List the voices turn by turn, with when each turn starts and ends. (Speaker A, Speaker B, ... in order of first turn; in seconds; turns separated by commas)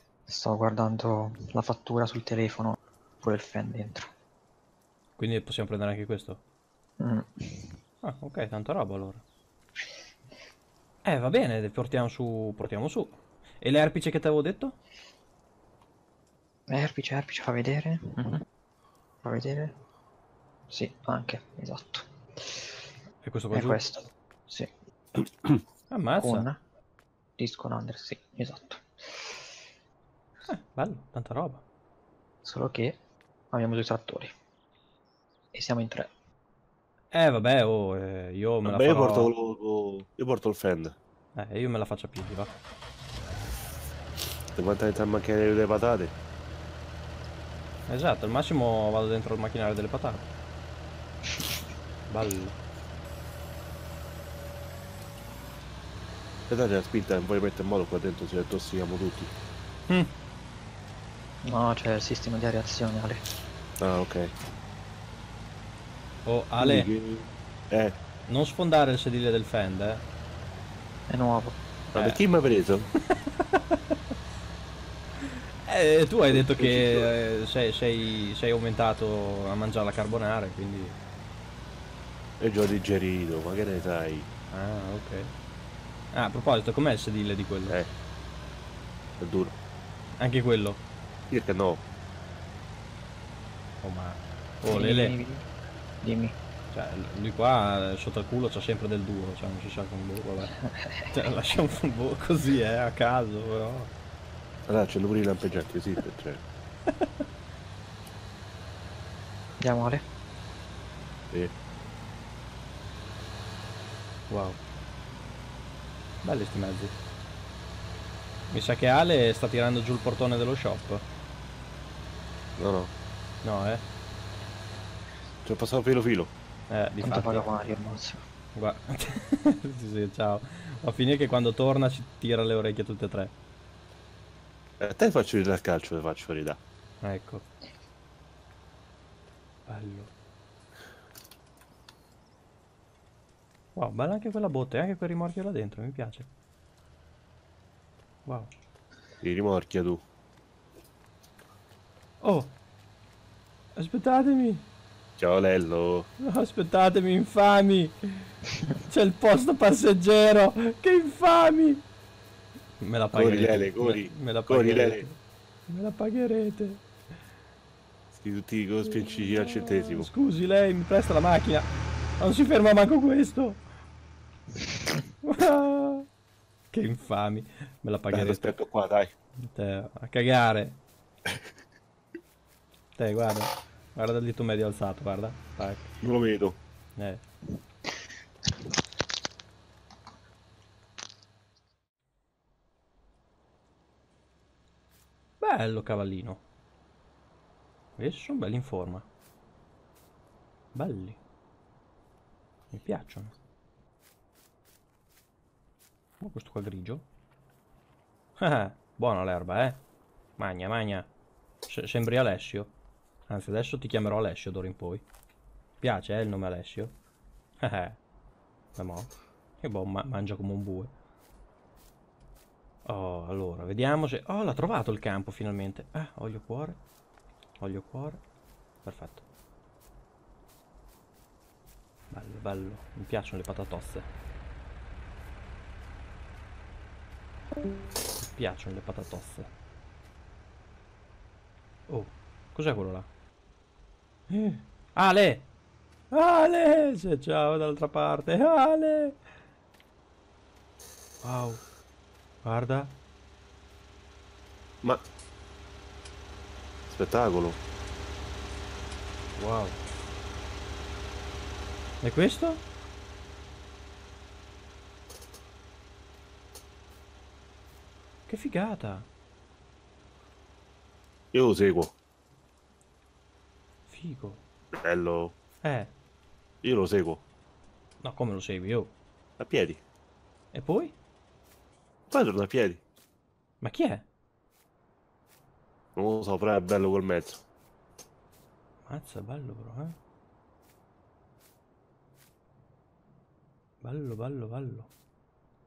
Speaker A: 0.3-4.1, Speaker B: 5.2-6.4, Speaker A: 7.0-7.7, Speaker B: 8.0-9.2, Speaker B: 11.0-14.8, Speaker A: 16.7-18.4, Speaker A: 19.2-19.7, Speaker A: 20.7-22.7, Speaker B: 23.2-23.8, Speaker A: 23.5-24.7, Speaker B: 25.9-26.5, Speaker A: 26.2-26.6, Speaker A: 27.4-29.5, Speaker B: 30.5-31.6, Speaker A: 32.4-33.0, Speaker A: 33.5-34.3, Speaker A: 35.5-36.1, Speaker B: 37.1-39.3, Speaker C: 38.6-40.9, Speaker B: 41.3-42.5, Speaker C: 44.5-46.1, Speaker B: 47.9-50.2, Speaker B: 52.1-52.6, Speaker C: 56.5-59.3, Speaker A: 61.5-63.2, Speaker C: 63.8-64.3, Speaker B: 66.2-66.9, Speaker C: 66.6-68.0, Speaker B: 68.3-70.0, Speaker A: 71.1-71.6, Speaker B: 71.9-72.2, Speaker C: 71.9-72.9, Speaker B: 73.5-73.8, Speaker B: 75.6-81.0, Speaker C: 76.3-77.1, Speaker C: 82.4-84.3, Speaker B: 84.5-85.3, Speaker B: 86.1-87.8, Speaker C: 89.2-89.5, Speaker B: 90.2-90.8, Speaker C: 91.3-91.8, Speaker B: 93.8-95.2, Speaker A: 94.7-95.4, Speaker A: 96.0-96.4, Speaker B: 96.7-100.5, Speaker A: 100.6-101.1, Speaker B: 101.1-103.9, Speaker C: 104.7-106.4, Speaker A: 109.6-110.0, Speaker B: 114.3-114.6, Speaker B: 116.2-117.0, Speaker B: 118.5-121.0, Speaker C: 122.6-122.9, Speaker B: 123.4-123.8, Speaker C: 125.4-126.3, Speaker B: 126.7-127.5, Speaker A: 127.0-128.2, Speaker B: 128.5-133.3, Speaker C: 134.8-136.6, Speaker B: 137.0-137.4, Speaker B: 139.7-140.1, Speaker B: 143.7-146.3, Speaker B: 148.2-148.5, Speaker C: 149.2-150.0, Speaker B: 152.2-152.5, Speaker B: 153.7-154.7, Speaker C: 155.2-156.1, Speaker B: 156.2-158.3, Speaker B: 158.9-161.8, Speaker B: 162.8-166.8, Speaker C: 163.1-165.0, Speaker C: 168.1-170.1, Speaker B: 169.0-173.6, Speaker B: 175.2-176.1, Speaker B: 176.7-178.5, Speaker C: 178.1-179.1, Speaker B: 179.4-180.8, Speaker B: 182.9-185.9, Speaker C: 186.0-186.6, Speaker B: 186.9-187.2, Speaker B: 195.4-196.4, Speaker B: 198.0-199.1, Speaker B: 200.7-201.2, Speaker B: 202.7-203.3, Speaker B: 206.2-207.0, Speaker B: 208.4-209.8, Speaker B: 210.4-211.1, Speaker B: 211.7-212.7, Speaker B: 213.3-215.0, Speaker B: 215.8-216.9, Speaker B: 217.6-218.0, Speaker B: 218.8-220.9, Speaker B: 222.8-226.8, Speaker B: 227.6-228.2, Speaker B: 228.8-229.2, Speaker B: 232.1-234.1, Speaker B: 238.2-239.5, Speaker B: 241.9-243.1, Speaker B: 244.3-245.5, Speaker B: 246.1-249.2, Speaker B: 251.2-251.6, Speaker B: 252.4-252.9, Speaker C: 256.9-257.6, Speaker B: 259.4-259.8, Speaker B: 262.0-262.6, Speaker B: 268.3-269.1, Speaker C: 271.3-271.9, Speaker B: 273.9-274.4, Speaker C: 274.8-275.3, Speaker B: 275.6-275.9, Speaker C: 276.6-277.2, Speaker B: 278.0-278.9, Speaker C: 279.4-279.8, Speaker B: 280.5-280.9, Speaker C: 282.1-282.8, Speaker B: 283.6-284.0, Speaker C: 285.9-287.4, Speaker B: 288.9-289.9, Speaker B: 293.8-294.9